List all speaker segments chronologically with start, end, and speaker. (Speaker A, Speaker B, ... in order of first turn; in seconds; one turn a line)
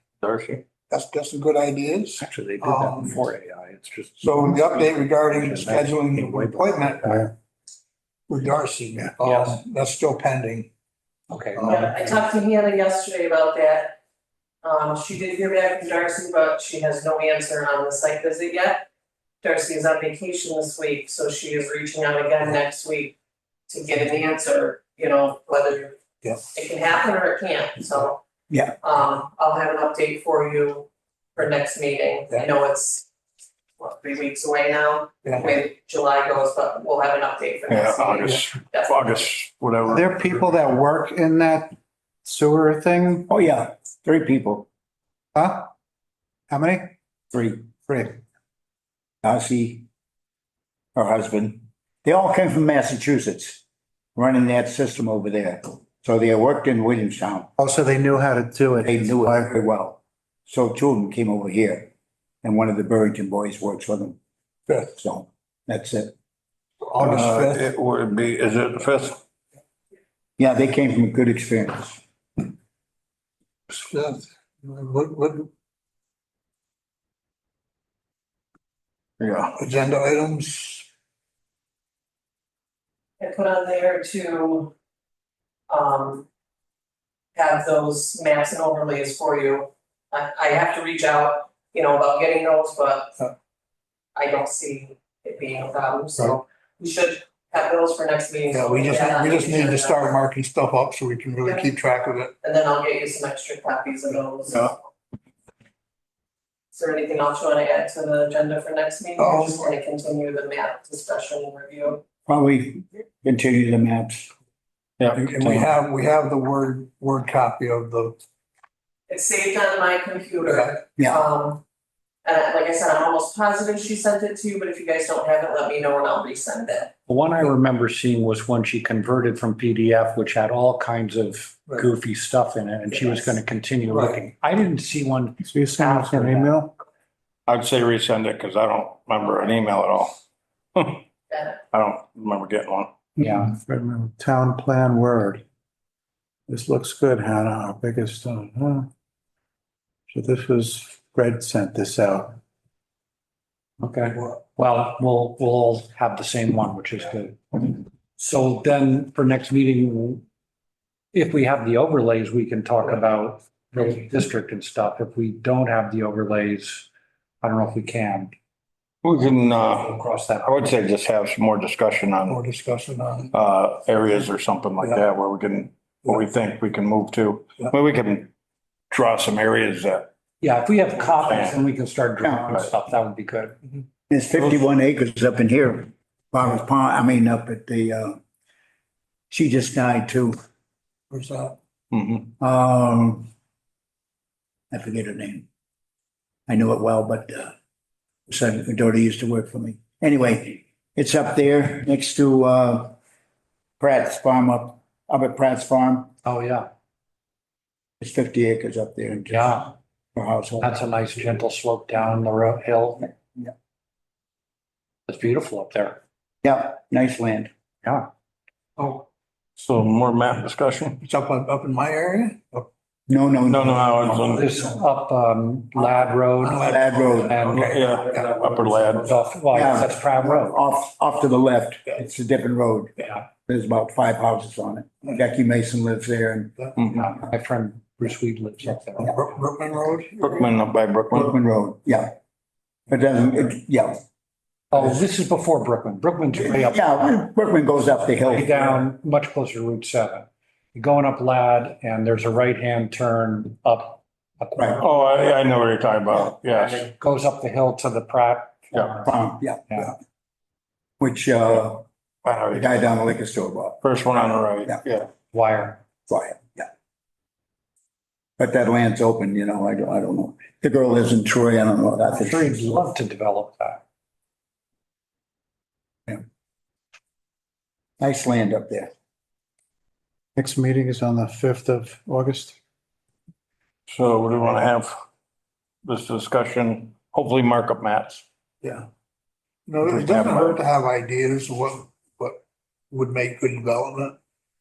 Speaker A: 0.2-0.6
Speaker B: 0.9-3.2
Speaker C: 2.2-4.8
Speaker B: 4.2-7.2
Speaker C: 5.4-7.3
Speaker B: 8.3-10.7
Speaker C: 9.2-9.6
Speaker C: 11.3-12.2
Speaker B: 11.5-11.9
Speaker D: 11.7-14.0
Speaker D: 14.6-18.9
Speaker D: 19.4-23.2
Speaker D: 23.7-26.0
Speaker B: 26.2-26.5
Speaker D: 26.5-28.2
Speaker E: 28.5-28.8
Speaker D: 28.8-33.1
Speaker D: 33.8-39.2
Speaker B: 35.2-35.5
Speaker A: 37.7-40.1
Speaker F: 39.9-43.3
Speaker E: 43.3-44.7
Speaker F: 45.4-45.7
Speaker F: 46.5-46.9
Speaker E: 47.3-47.7
Speaker F: 47.9-48.2
Speaker E: 49.2-49.8
Speaker E: 50.9-53.6
Speaker E: 54.1-57.5
Speaker F: 57.6-59.5
Speaker E: 58.8-61.9
Speaker E: 62.4-64.2
Speaker B: 64.7-65.0
Speaker E: 65.0-66.1
Speaker B: 66.8-67.6
Speaker A: 67.0-69.2
Speaker E: 70.4-72.0
Speaker B: 73.7-75.5
Speaker A: 79.2-79.5
Speaker B: 79.5-80.9
Speaker D: 83.2-84.7
Speaker D: 85.7-86.2
Speaker D: 87.3-93.3
Speaker D: 94.1-100.2
Speaker B: 98.5-102.3
Speaker D: 102.4-104.8
Speaker D: 106.7-112.0
Speaker B: 109.2-109.7
Speaker E: 112.3-114.3
Speaker A: 115.0-115.7
Speaker B: 115.1-118.2
Speaker D: 119.1-121.6
Speaker B: 120.4-120.8
Speaker D: 122.2-126.9
Speaker C: 127.1-136.5
Speaker B: 133.9-134.2
Speaker F: 135.4-136.7
Speaker A: 137.5-140.2
Speaker A: 140.7-141.0
Speaker D: 141.3-141.6
Speaker A: 141.7-142.9
Speaker F: 143.2-145.4
Speaker C: 143.2-143.5
Speaker F: 146.5-148.9
Speaker F: 150.1-152.4
Speaker C: 153.8-160.2
Speaker C: 161.1-166.9
Speaker C: 167.4-168.3
Speaker A: 169.0-172.4
Speaker C: 169.6-170.8
Speaker B: 172.2-173.3
Speaker A: 173.3-178.3
Speaker A: 178.9-180.1
Speaker C: 180.4-183.6
Speaker A: 181.2-181.6
Speaker E: 184.1-188.2
Speaker E: 189.3-190.4
Speaker B: 191.1-191.6
Speaker A: 191.9-192.3
Speaker E: 192.4-193.3
Speaker E: 194.7-195.4
Speaker E: 196.5-197.5
Speaker E: 198.3-202.9
Speaker E: 203.8-206.1
Speaker C: 206.2-206.7
Speaker E: 208.0-210.7
Speaker C: 209.3-209.7
Speaker C: 210.6-213.2
Speaker C: 215.1-216.0
Speaker E: 216.4-217.5
Speaker B: 218.8-219.0
Speaker A: 219.6-221.0
Speaker B: 221.0-222.7
Speaker E: 223.1-224.6
Speaker A: 223.4-224.5
Speaker C: 224.3-227.8
Speaker B: 225.8-228.3
Speaker E: 226.6-227.4
Speaker A: 227.5-229.1
Speaker C: 228.9-230.6
Speaker E: 229.5-236.7
Speaker C: 236.8-239.2
Speaker B: 239.0-240.4
Speaker A: 240.1-241.4
Speaker E: 241.1-242.1
Speaker E: 242.9-244.0
Speaker C: 244.7-247.2
Speaker E: 246.3-248.7
Speaker C: 248.2-255.0
Speaker A: 254.8-256.9
Speaker C: 256.5-259.9
Speaker E: 259.0-259.9
Speaker E: 261.0-261.9
Speaker A: 262.2-262.8
Speaker E: 262.5-263.8
Speaker A: 263.8-265.1
Speaker C: 265.3-265.8
Speaker E: 266.1-266.7
Speaker E: 268.4-272.6
Speaker C: 272.1-273.8
Speaker E: 278.0-278.9
Speaker F: 280.4-282.6
Speaker A: 283.9-284.9
Speaker A: 285.8-288.2
Speaker B: 288.6-288.9
Speaker B: 289.7-294.2
Speaker A: 289.8-290.6